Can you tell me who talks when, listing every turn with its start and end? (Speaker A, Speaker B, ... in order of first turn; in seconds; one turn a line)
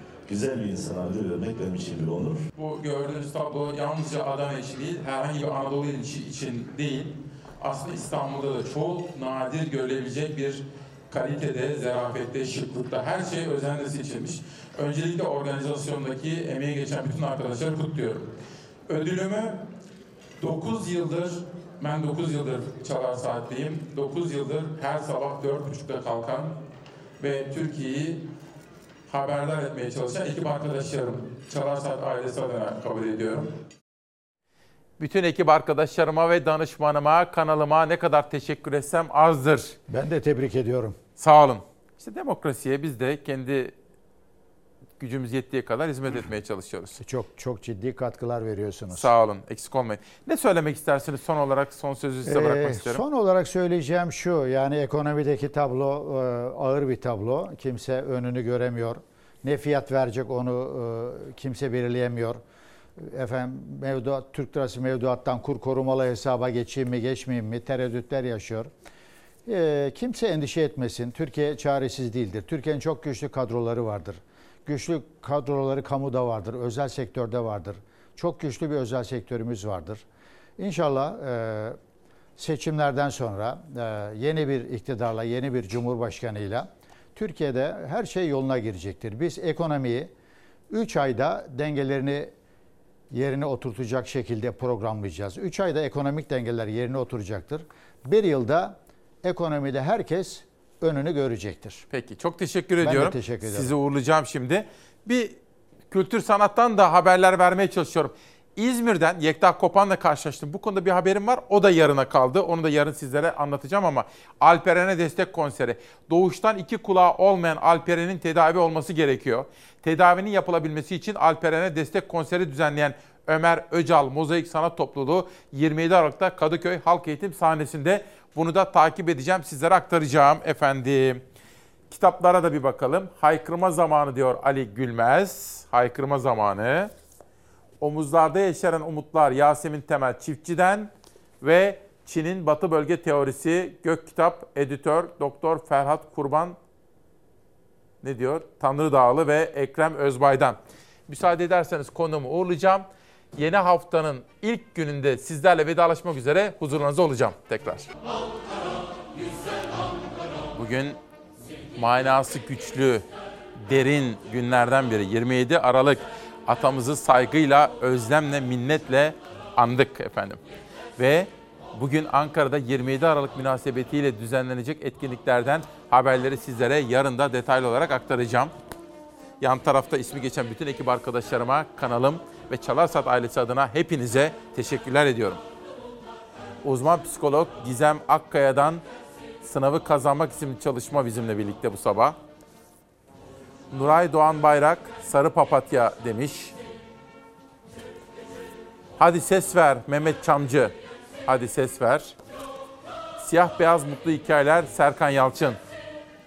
Speaker A: 0.3-2.4
Speaker B: 2.5-18.3
Speaker B: 18.9-19.6
Speaker B: 20.4-26.6
Speaker B: 27.2-28.2
Speaker B: 29.1-33.5
Speaker B: 35.0-39.8
Speaker C: 39.9-41.0
Speaker B: 41.2-43.8
Speaker B: 45.0-47.0
Speaker C: 47.0-49.1
Speaker B: 48.9-53.0
Speaker C: 52.2-62.4
Speaker C: 63.0-68.7
Speaker C: 69.5-80.0
Speaker C: 80.6-81.8
Speaker C: 82.4-90.1
Speaker C: 90.7-92.3
Speaker C: 93.1-101.8
Speaker B: 101.9-105.4
Speaker C: 102.8-103.7
Speaker B: 105.9-131.2
Speaker B: 131.9-136.9
Speaker B: 137.8-146.6
Speaker B: 148.0-157.9
Speaker B: 160.5-161.0
Speaker B: 161.8-163.1
Speaker B: 163.6-170.4
Speaker B: 171.0-178.5
Speaker B: 179.4-185.4
Speaker B: 186.6-188.8
Speaker B: 189.4-192.2
Speaker B: 193.7-196.5
Speaker B: 199.0-202.1
Speaker B: 203.2-205.6